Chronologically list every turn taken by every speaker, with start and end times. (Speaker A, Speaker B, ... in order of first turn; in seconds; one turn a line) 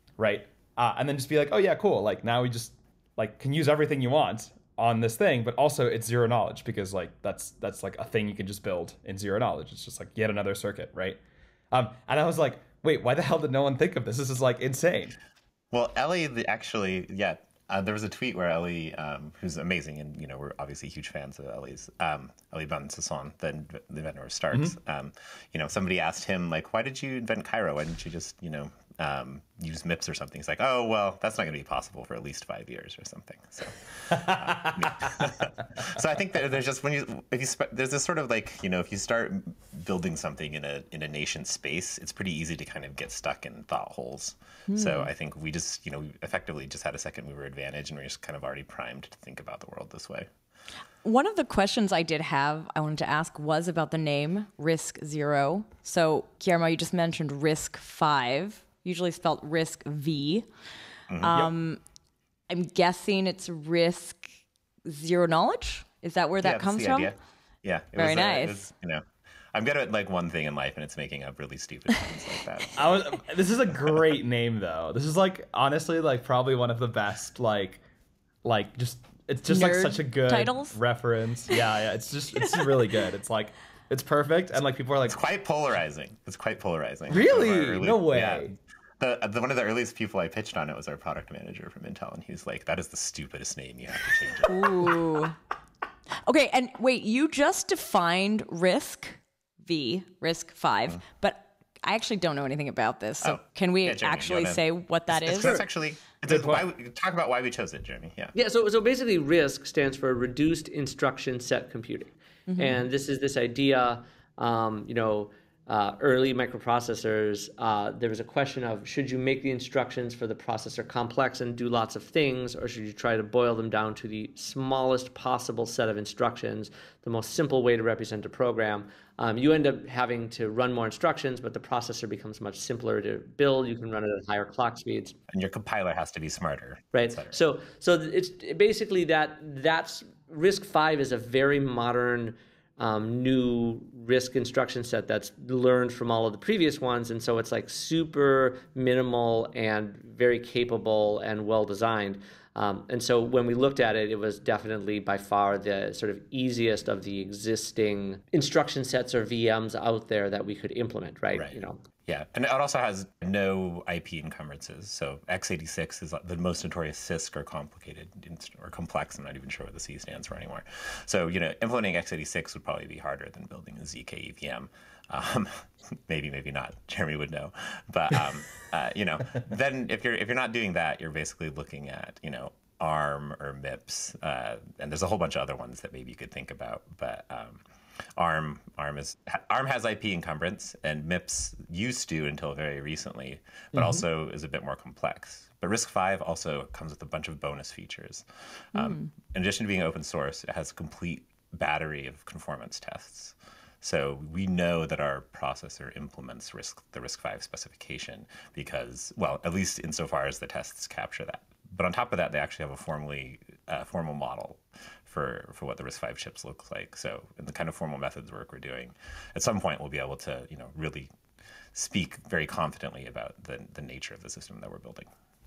Speaker A: 0.2-11.2
Speaker A: 11.7-15.2
Speaker B: 15.7-50.3
Speaker A: 24.5-24.8
Speaker A: 34.4-34.8
Speaker C: 44.7-45.1
Speaker C: 51.0-60.5
Speaker B: 61.1-61.4
Speaker C: 61.2-61.8
Speaker C: 62.5-64.3
Speaker C: 64.9-67.1
Speaker B: 66.4-72.9
Speaker C: 67.9-68.6
Speaker A: 72.8-77.8
Speaker A: 78.4-85.2
Speaker C: 79.5-80.8
Speaker B: 85.1-95.0
Speaker A: 87.1-88.5
Speaker C: 94.4-95.3
Speaker C: 96.2-105.6
Speaker B: 103.2-108.3
Speaker A: 106.2-106.7
Speaker D: 108.3-135.1
Speaker C: 112.5-112.8
Speaker B: 135.3-137.3
Speaker D: 136.9-161.8
Speaker B: 161.3-187.6
Speaker B: 188.2-221.1
Speaker A: 193.7-194.0
Speaker C: 198.7-199.1
Speaker B: 221.7-225.1